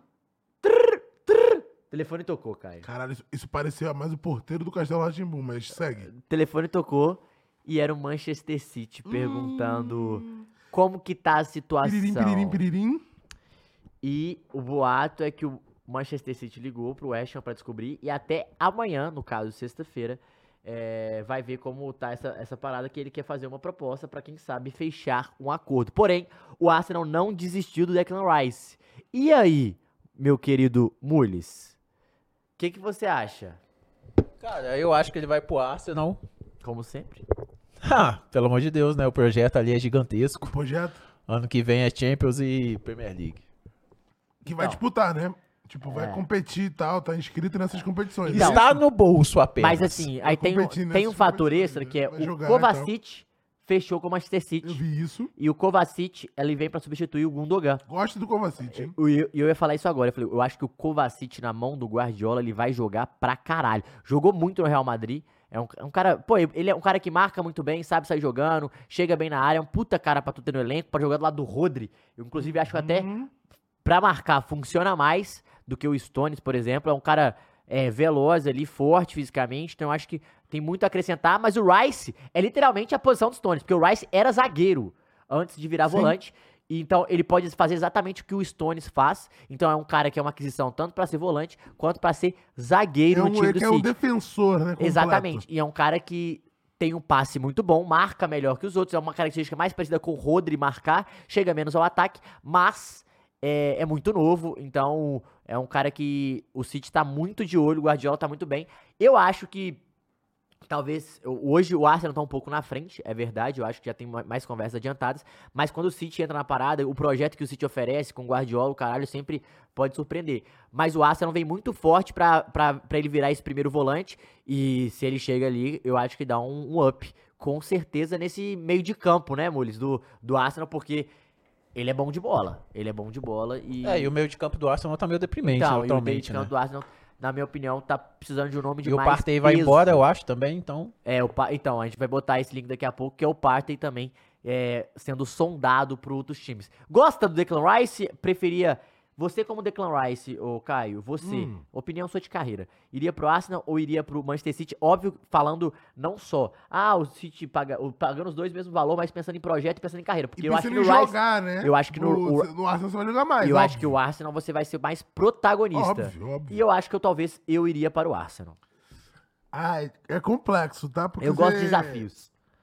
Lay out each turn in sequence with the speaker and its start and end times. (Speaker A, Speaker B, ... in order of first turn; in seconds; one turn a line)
Speaker A: 0.6-2.9
Speaker B: 2.8-6.1
Speaker A: 6.0-12.6
Speaker B: 9.0-10.5
Speaker B: 11.8-13.0
Speaker A: 14.0-31.8
Speaker A: 32.6-33.6
Speaker C: 34.4-36.2
Speaker A: 36.6-37.2
Speaker C: 37.8-40.5
Speaker B: 40.5-41.0
Speaker C: 41.3-43.4
Speaker B: 44.4-48.8
Speaker A: 45.9-46.2
Speaker C: 48.2-50.1
Speaker A: 48.3-48.6
Speaker A: 49.6-54.8
Speaker B: 50.2-52.9
Speaker B: 54.6-55.3
Speaker A: 55.4-57.8
Speaker B: 57.9-58.9
Speaker A: 58.7-73.1
Speaker B: 72.4-73.3
Speaker A: 73.8-93.9
Speaker B: 85.9-86.2
Speaker B: 93.1-95.4
Speaker A: 94.8-109.8
Speaker A: 110.7-131.1
Speaker A: 131.7-134.1
Speaker C: 133.8-136.5
Speaker A: 135.4-140.0
Speaker C: 138.8-140.9
Speaker A: 141.0-162.5
Speaker B: 151.2-151.6
Speaker B: 160.4-163.9
Speaker A: 163.4-168.6
Speaker B: 165.7-166.6
Speaker B: 169.5-172.1
Speaker A: 171.2-172.3